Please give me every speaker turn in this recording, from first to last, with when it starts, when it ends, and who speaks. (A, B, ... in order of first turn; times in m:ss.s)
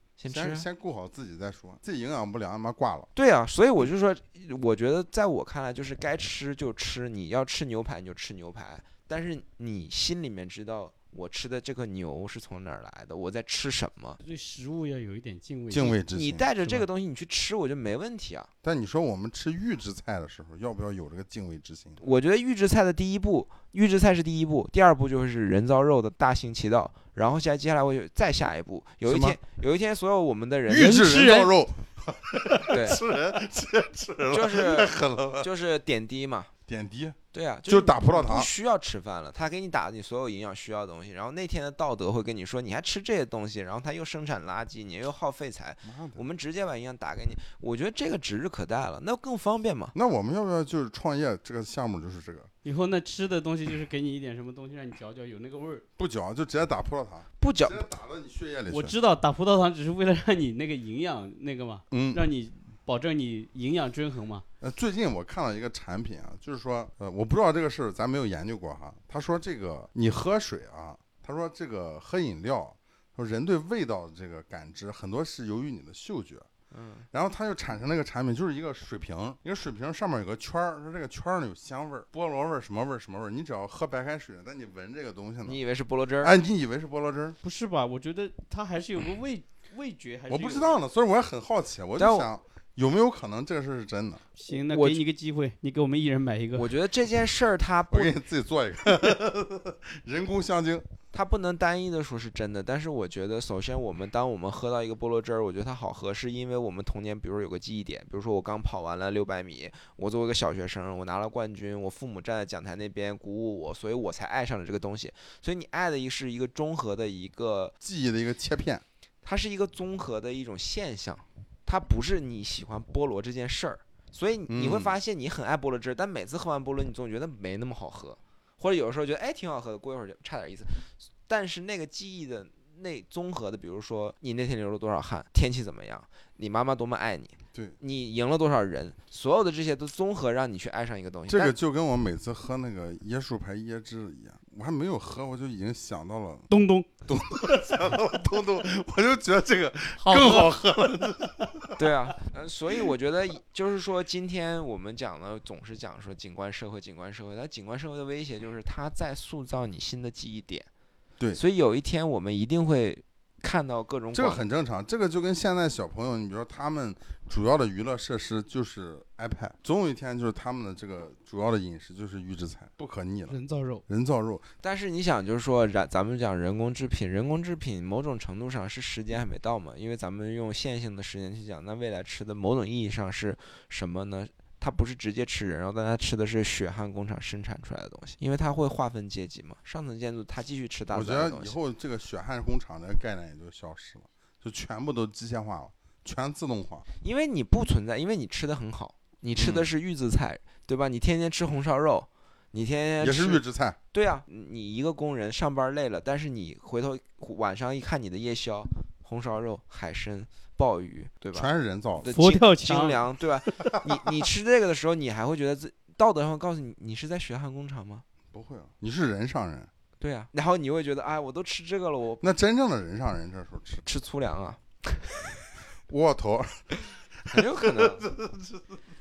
0:00.2-0:00.7 A
0:00.3-0:03.1 B
0:03.2-0:14.2 A
0:14.2-0:16.0 C
0:15.7-0:16.8 B
0:16.1-0:18.5 A
0:18.6-0:22.0 B
0:22.0-0:31.4 A
0:29.0-0:29.4 B
0:30.7-0:35.5 B
0:31.0-0:31.5 C
0:32.7-0:33.0 A
0:34.3-0:36.5 A
0:36.7-0:38.5 B
0:37.3-0:49.9 A
0:45.8-0:46.2 B
0:49.9-0:52.5 B
0:52.6-0:55.8 C
0:56.0-0:59.0 B
0:57.4-0:57.8 A
0:58.7-1:04.5 C
1:01.9-1:02.2 B
1:04.6-1:16.5 B
1:16.7-1:17.1 A
1:17.1-1:25.6 B
1:25.4-1:26.4 A
1:26.2-1:27.4 B
1:27.4-1:30.8 C
1:30.3-1:34.2 B
1:32.0-1:32.3 A
1:34.4-1:36.7 C
1:34.7-1:35.0 A
1:36.6-1:38.2 A
1:37.9-1:40.9 B
1:41.1-1:57.7 A
1:57.8-1:58.8 B
1:59.2-2:21.5 A
2:04.5-2:05.0 B
2:21.3-2:26.5 B
2:26.5-2:27.6 C
2:27.1-2:31.9 B
2:30.0-2:30.5 C
2:31.8-2:40.7 A
2:41.4-2:44.4 A
2:44.1-2:54.5 B
2:53.3-2:53.8 C
2:54.6-3:11.6 A
3:10.9-3:16.9 B
3:17.0-3:23.4 A
3:19.4-3:19.7 B
3:23.0-3:23.8 B
3:23.9-3:38.0 A
3:31.3-3:32.2 B
3:32.1-3:33.0 C
3:38.3-3:39.7 B
3:40.0-3:42.3 A
3:42.2-3:43.8 B
3:43.8-3:45.3 A
3:45.9-3:46.7 B
3:47.2-3:48.7 B
3:47.3-3:48.1 A